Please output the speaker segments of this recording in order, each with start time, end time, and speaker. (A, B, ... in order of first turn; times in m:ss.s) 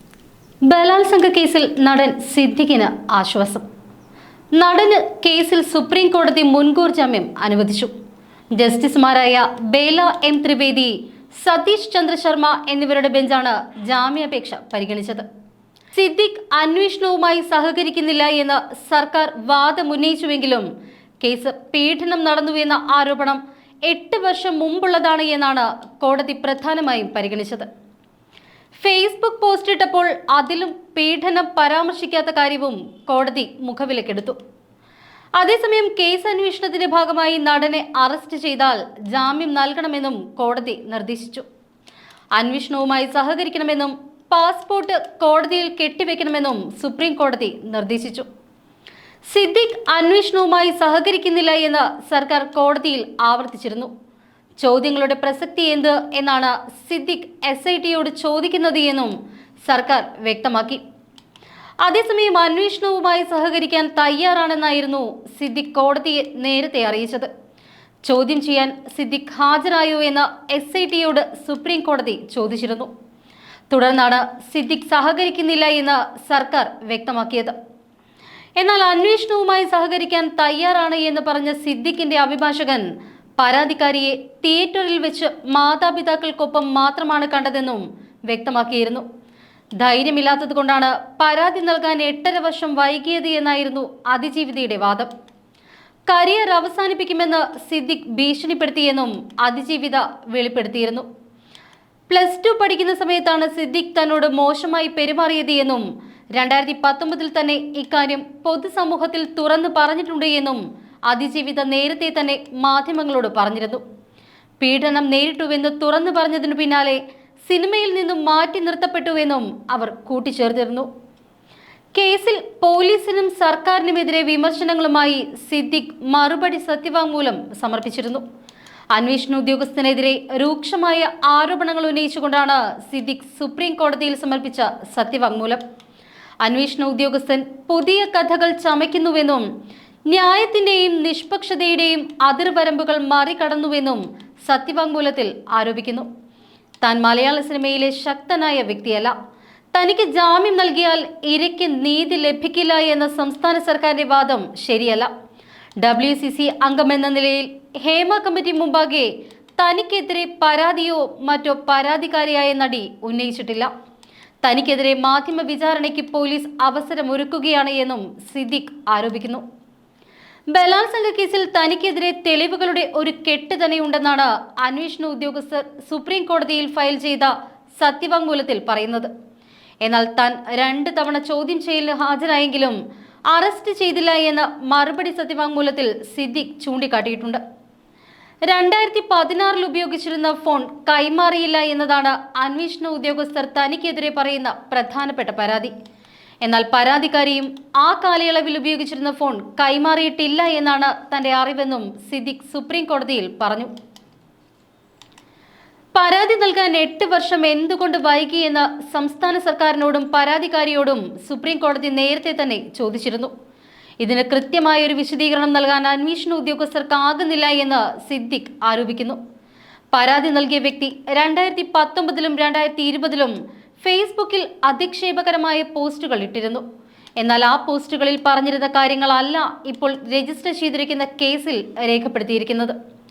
0:00.7-0:03.6 A
0:04.6-0:07.9 A
0:08.6-0:15.3 A
0:15.9-0:20.7 A
0:21.2-0:27.7 A
0:28.8-0:34.4 A
0:35.4-0:41.4 A
0:42.4-0:48.3 A
0:49.3-0:53.9 A
0:54.6-1:00.8 A
1:01.8-1:07.3 A
1:08.0-1:12.9 A
1:13.7-1:17.6 A
1:18.6-1:22.9 A
1:23.4-1:29.0 A
1:29.8-1:35.1 A
1:36.1-1:41.1 A
1:42.1-1:53.8 A
1:54.6-2:00.9 A
2:01.9-2:08.2 A
2:08.9-2:15.6 A
2:16.4-2:19.5 A
2:20.1-2:26.1 A
2:26.8-2:29.2 A
2:29.7-2:35.1 A
2:35.8-2:43.7 A
2:44.4-2:49.4 A
2:50.5-2:59.1 A
2:59.8-3:02.8 A
3:03.3-3:07.4 A
3:08.5-3:15.7 A
3:16.4-3:23.7 A
3:26.0-3:33.3 A
3:34.0-3:39.2 A
3:39.9-3:46.6 A
3:47.2-3:52.8 A